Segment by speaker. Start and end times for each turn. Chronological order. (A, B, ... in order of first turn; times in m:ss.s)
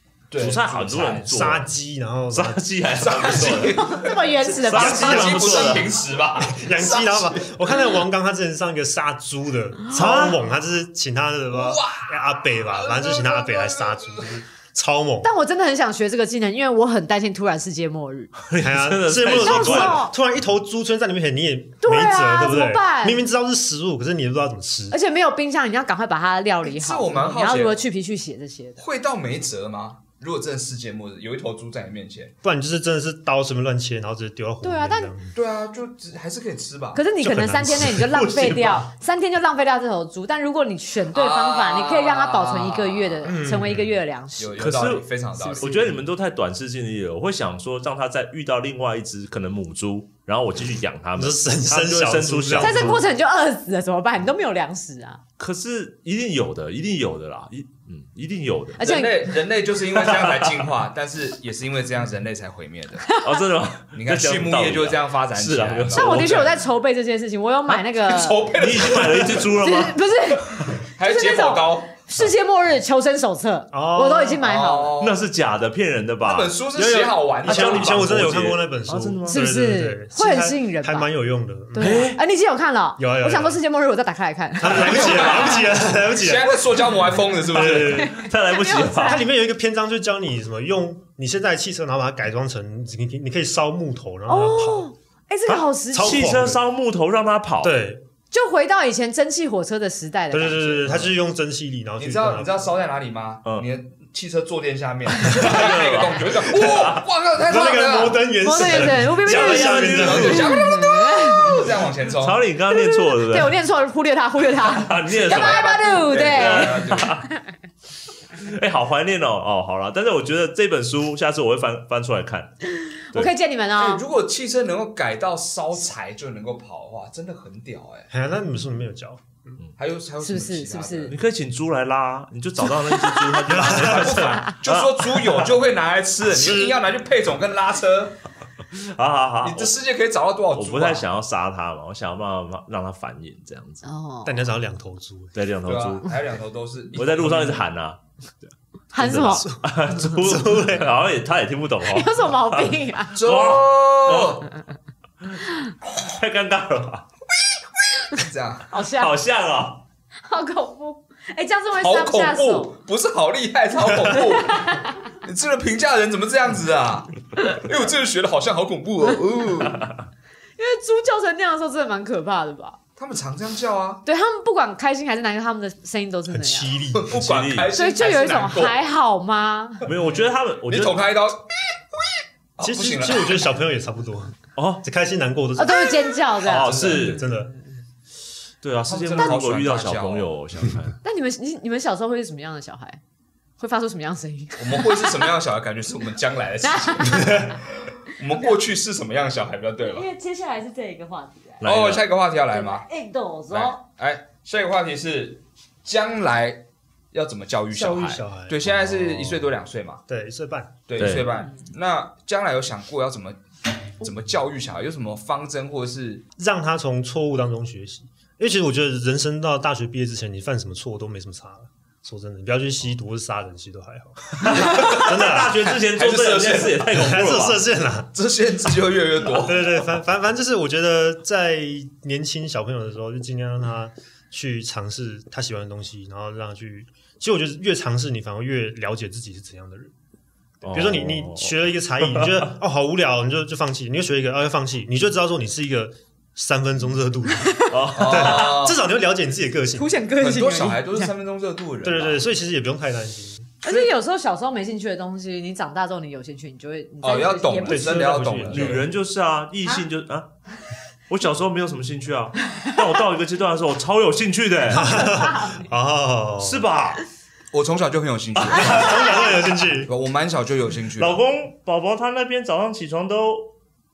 0:00.3-0:01.5 A
0:00.4-0:01.7 B
0:01.2-0:02.6 C
0:02.3-0:04.0 B
0:02.9-0:07.5 A
0:03.6-0:05.4 D
0:04.5-0:05.9 B
0:04.6-0:15.3 C
0:09.9-0:10.4 B
0:11.5-0:14.4 A
0:15.2-0:18.3 D
0:18.4-0:20.0 B
0:18.6-0:25.0 C
0:19.3-0:20.1 D
0:21.8-0:23.2 D
0:24.9-0:28.8 D
0:26.6-0:27.8 A
0:28.8-0:32.3 A
0:32.4-0:35.4 C
0:34.6-0:35.1 D
0:35.4-0:37.0 A
0:37.0-0:44.6 D
0:37.2-0:38.1 C
0:37.6-0:38.9 B
0:41.1-0:43.4 A
0:43.3-0:44.0 C
0:44.4-0:45.9 A
0:44.6-0:45.1 B
0:45.4-0:46.0 D
0:45.6-0:53.0 B
0:51.2-0:53.0 C
0:52.6-0:55.2 D
0:55.4-0:58.9 B
0:58.8-0:59.4 D
0:58.8-1:03.0 A
0:59.9-1:00.7 B
1:03.0-1:03.4 D
1:03.2-1:06.6 B
1:03.9-1:06.4 A
1:06.0-1:14.9 D
1:08.0-1:09.5 A
1:08.6-1:10.0 B
1:11.0-1:11.9 A
1:13.7-1:14.4 C
1:14.4-1:15.2 A
1:15.0-1:16.5 B
1:16.2-1:18.2 A
1:16.8-1:22.0 C
1:17.4-1:19.4 B
1:19.3-1:21.1 D
1:21.7-1:25.4 D
1:21.8-1:22.2 B
1:23.0-1:23.6 C
1:24.6-1:26.8 C
1:24.7-1:28.1 A
1:27.4-1:28.2 C
1:27.5-1:29.2 B
1:27.7-1:29.3 D
1:29.0-1:34.9 C
1:34.3-1:36.3 D
1:35.5-1:37.8 B
1:35.9-1:36.6 C
1:37.6-1:38.0 C
1:38.3-1:41.0 D
1:40.3-1:42.7 C
1:42.0-1:48.3 A
1:45.2-1:47.0 B
1:47.4-1:50.6 C
1:48.4-1:51.6 D
1:48.6-1:50.6 B
1:49.9-1:52.4 A
1:52.2-1:53.6 B
1:52.7-1:56.8 D
1:54.7-1:55.6 B
1:55.1-1:57.1 A
1:56.3-1:57.3 B
1:58.4-2:02.6 B
2:02.8-2:04.0 D
2:03.8-2:08.1 A
2:08.1-2:09.6 C
2:09.8-2:11.2 A
2:10.2-2:11.2 D
2:11.1-2:15.5 B
2:13.5-2:18.2 A
2:13.5-2:14.4 C
2:16.3-2:16.8 C
2:18.7-2:19.7 B
2:19.4-2:21.1 A
2:20.5-2:23.8 B
2:23.8-2:24.5 D
2:24.2-2:25.4 C
2:25.4-2:26.1 B
2:25.6-2:27.6 A
2:27.0-2:34.4 B
2:28.9-2:29.5 D
2:29.2-2:30.9 C
2:31.8-2:33.2 D
2:33.2-2:34.5 A
2:35.8-2:37.1 B
2:38.1-2:38.7 A
2:38.7-2:39.1 D
2:38.9-2:39.8 B
2:40.3-2:42.7 D
2:41.8-2:49.9 A
2:44.1-2:45.0 D
2:50.6-2:52.8 D
2:53.0-2:54.0 A
2:54.0-2:56.8 D
2:56.3-2:57.1 C
2:57.0-2:58.8 A
2:57.1-2:57.7 B
2:57.7-2:59.8 D
2:59.8-3:01.1 B
2:59.9-3:00.2 A
3:00.7-3:03.5 A
3:02.6-3:07.5 C
3:04.6-3:04.8 B
3:05.6-3:07.0 D
3:06.4-3:07.2 B
3:06.7-3:07.2 A
3:08.6-3:11.0 B
3:08.9-3:10.3 A
3:11.0-3:13.0 D
3:13.6-3:15.3 D
3:14.6-3:20.1 A
3:16.6-3:17.6 D
3:19.8-3:21.6 D
3:21.6-3:22.0 B
3:21.6-3:22.8 A
3:22.5-3:23.8 D
3:23.5-3:30.0 A
3:27.7-3:28.7 C
3:30.1-3:30.8 C
3:30.9-3:33.4 A
3:31.0-3:31.3 B
3:34.0-3:36.2 A
3:36.4-3:45.7 C
3:44.4-3:47.6 B
3:44.6-3:45.0 A
3:46.0-3:46.9 A
3:46.9-3:48.1 C
3:48.1-3:49.8 A
3:49.4-3:59.9 C
4:00.6-4:02.5 B
4:00.6-4:09.9 C
4:07.7-4:08.6 B
4:08.0-4:08.8 A
4:09.8-4:11.1 D
4:10.2-4:12.2 A
4:11.8-4:13.6 C
4:13.6-4:18.2 D
4:17.0-4:18.8 A
4:17.7-4:18.9 C
4:18.4-4:20.3 B
4:21.1-4:25.1 B
4:24.7-4:26.7 C
4:26.4-4:27.0 B
4:27.5-4:31.2 A
4:28.5-4:29.9 C
4:31.0-4:33.5 B